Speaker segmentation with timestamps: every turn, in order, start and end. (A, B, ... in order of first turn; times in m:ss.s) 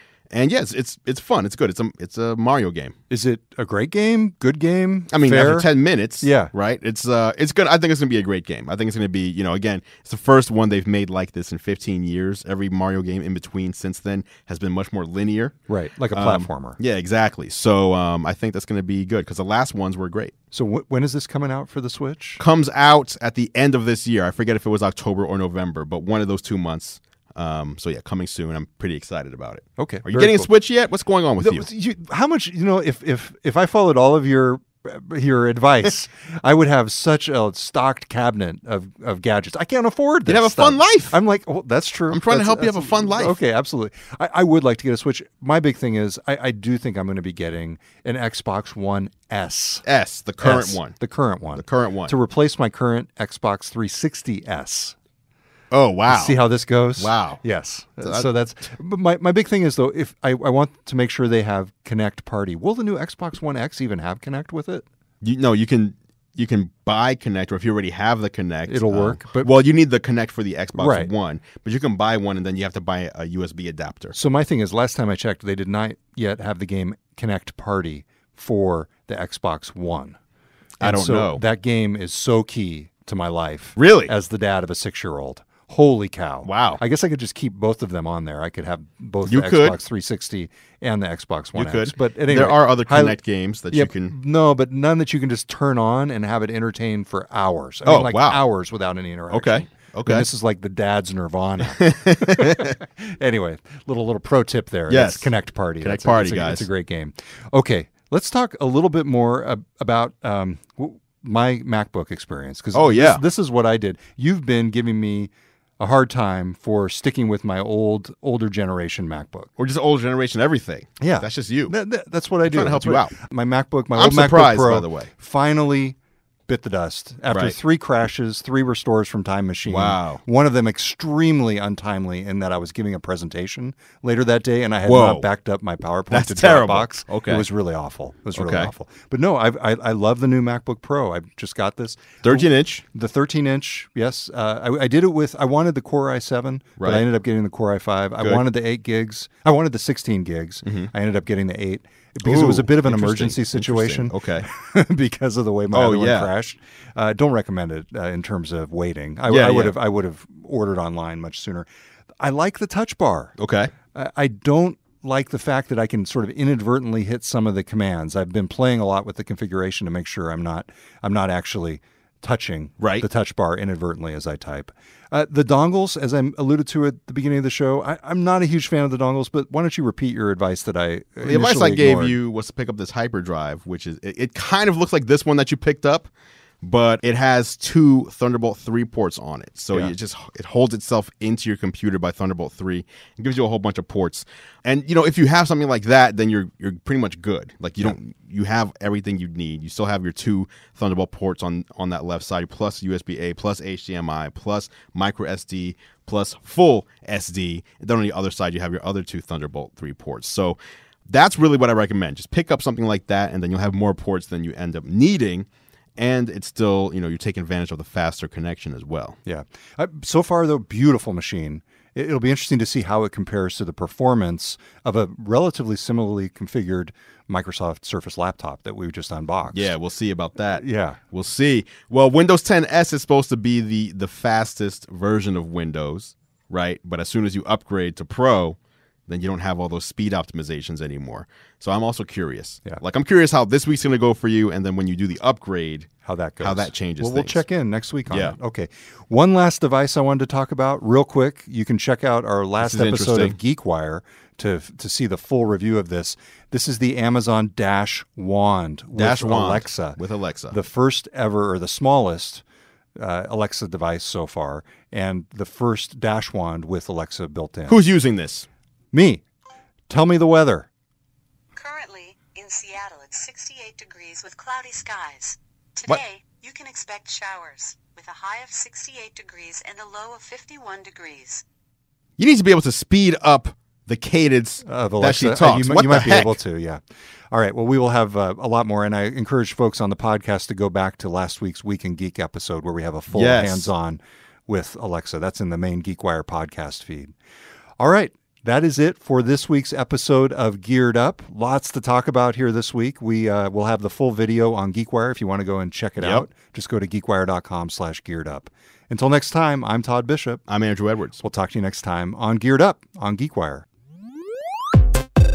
0:00.3-0:02.9 A
0:03.1-0:05.7 B
0:05.1-0:15.6 A
0:06.2-0:06.5 B
0:15.7-0:16.8 B
0:16.1-0:20.3 A
0:20.5-0:22.4 B
0:22.4-0:31.7 A
0:29.8-0:30.5 B
0:31.4-0:49.8 B
0:40.3-0:41.2 A
0:42.1-0:43.4 A
0:49.8-0:50.9 A
0:50.4-0:54.9 B
0:51.6-0:52.1 A
0:55.7-0:56.4 A
0:56.1-1:04.8 B
0:57.0-0:57.4 A
1:05.2-1:14.2 A
1:08.7-1:09.5 B
1:10.8-1:11.1 B
1:14.1-1:20.2 B
1:20.8-1:21.4 A
1:20.8-1:33.2 B
1:23.8-1:24.1 A
1:26.4-1:26.8 A
1:29.2-1:29.8 A
1:31.5-1:34.1 A
1:33.7-1:59.5 B
1:37.8-1:38.4 A
1:39.3-1:40.2 A
1:41.6-1:42.7 A
1:44.9-1:45.3 A
1:45.8-1:46.6 A
1:52.7-1:53.2 A
1:59.6-2:01.7 A
2:01.0-2:06.0 B
2:02.5-2:03.1 A
2:03.9-2:05.1 A
2:06.5-2:41.7 B
2:07.3-2:07.6 A
2:09.6-2:10.2 A
2:14.8-2:15.3 A
2:16.1-2:17.4 A
2:18.3-2:18.7 A
2:22.2-2:22.8 A
2:26.8-2:27.0 A
2:30.6-2:30.9 A
2:32.2-2:34.5 A
2:35.7-2:36.3 A
2:39.3-2:39.8 A
2:42.2-2:43.3 B
2:43.4-2:43.7 A
2:43.9-3:02.2 B
2:52.8-2:53.0 A
3:01.2-3:06.1 A
3:06.6-3:39.2 A
3:39.2-3:49.7 B
3:49.5-3:58.6 A
3:50.6-3:51.0 B
3:59.1-4:05.9 A
4:06.0-4:20.0 B
4:06.4-4:07.4 A
4:08.1-4:08.4 A
4:12.6-4:13.4 A
4:18.9-4:20.6 A
4:20.5-4:22.4 B
4:23.0-4:27.8 B
4:27.7-4:28.4 A
4:28.9-4:29.2 B
4:29.9-4:30.7 B
4:31.6-4:41.4 C
4:42.2-4:46.4 A
4:44.6-4:46.8 B
4:47.3-4:57.1 B
4:53.1-4:53.7 A
4:57.8-5:10.4 B
5:06.0-5:06.3 A
5:10.5-5:11.2 A
5:11.2-5:13.6 B